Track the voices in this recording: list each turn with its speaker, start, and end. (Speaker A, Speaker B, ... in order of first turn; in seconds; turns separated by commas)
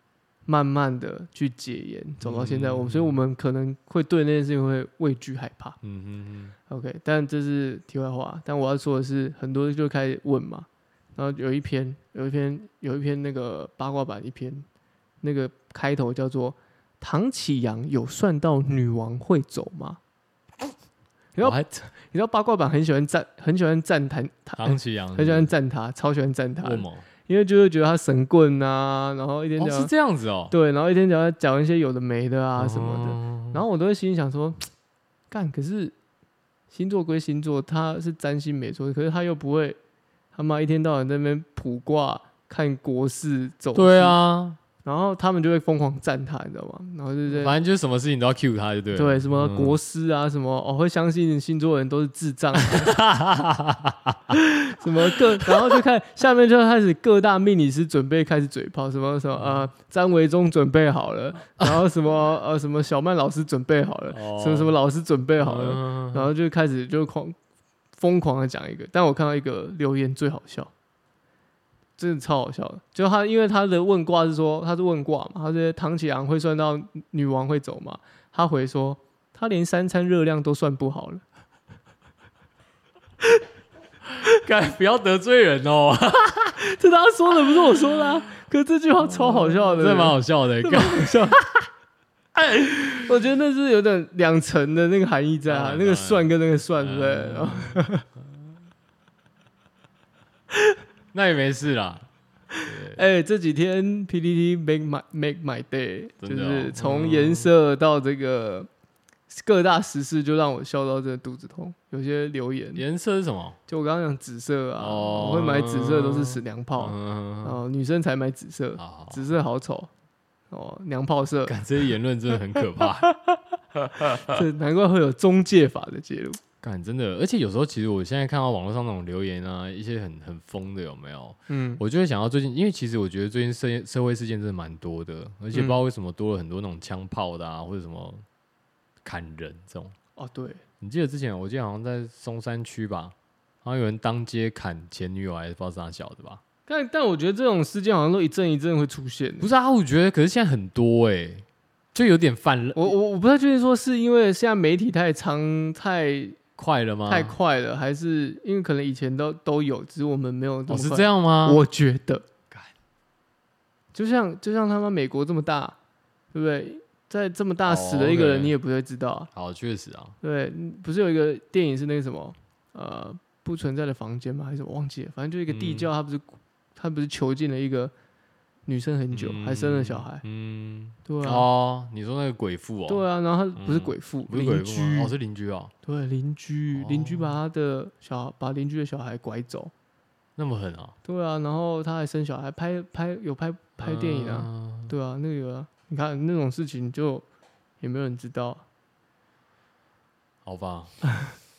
Speaker A: 0.5-5.8, Speaker B: 2.2-3.2, Speaker B: 5.8-6.5, Speaker A: 6.7-14.7, Speaker A: 15.2-20.0, Speaker A: 21.4-29.9, Speaker B: 21.4-21.7, Speaker B: 24.6-25.5, Speaker B: 26.6-27.1, Speaker B: 29.6-30.5, Speaker A: 30.5-34.7, Speaker B: 32.6-33.6, Speaker A: 35.3-36.0, Speaker A: 36.7-39.8, Speaker A: 40.3-44.2, Speaker B: 43.8-44.6, Speaker A: 44.8-47.6, Speaker B: 47.3-49.8, Speaker A: 48.9-53.0, Speaker B: 52.6-54.3, Speaker A: 54.3-67.4, Speaker B: 55.5-55.8, Speaker B: 59.4-59.7, Speaker B: 64.1-64.7, Speaker B: 65.4-66.3, Speaker A: 68.0-70.7, Speaker A: 72.0-81.2, Speaker B: 84.1-86.6, Speaker A: 86.6-91.4, Speaker B: 89.1-91.5, Speaker B: 92.4-93.0, Speaker A: 93.1-98.0, Speaker B: 95.5-97.9, Speaker B: 101.1-102.1, Speaker B: 102.7-103.0, Speaker A: 102.8-108.7, Speaker B: 106.2-107.5, Speaker A: 109.3-112.8, Speaker B: 112.8-113.6, Speaker A: 113.7-119.9, Speaker B: 114.8-117.6, Speaker B: 118.8-119.2, Speaker A: 120.5-121.6, Speaker B: 121.5-123.1, Speaker A: 122.6-123.4, Speaker B: 123.9-124.4, Speaker A: 124.0-126.4, Speaker B: 126.6-138.2, Speaker A: 131.5-131.8, Speaker A: 135.5-135.8, Speaker B: 139.0-139.9, Speaker A: 140.2-140.6, Speaker B: 140.8-146.4, Speaker A: 146.7-149.5, Speaker B: 149.4-153.0, Speaker A: 152.8-156.4, Speaker B: 156.6-157.4, Speaker A: 157.1-162.2, Speaker B: 160.7-161.6, Speaker A: 163.9-165.8, Speaker A: 166.3-169.3, Speaker B: 167.7-168.6, Speaker B: 169.3-170.2, Speaker A: 170.2-177.9, Speaker B: 175.5-175.9, Speaker A: 178.7-180.2, Speaker B: 179.1-183.0, Speaker A: 181.1-181.5, Speaker A: 182.9-185.1, Speaker B: 183.6-185.7, Speaker A: 185.8-189.7, Speaker B: 186.7-187.4, Speaker B: 190.4-191.0, Speaker A: 191.1-197.2, Speaker B: 193.8-194.9, Speaker A: 197.8-198.6, Speaker B: 200.4-201.0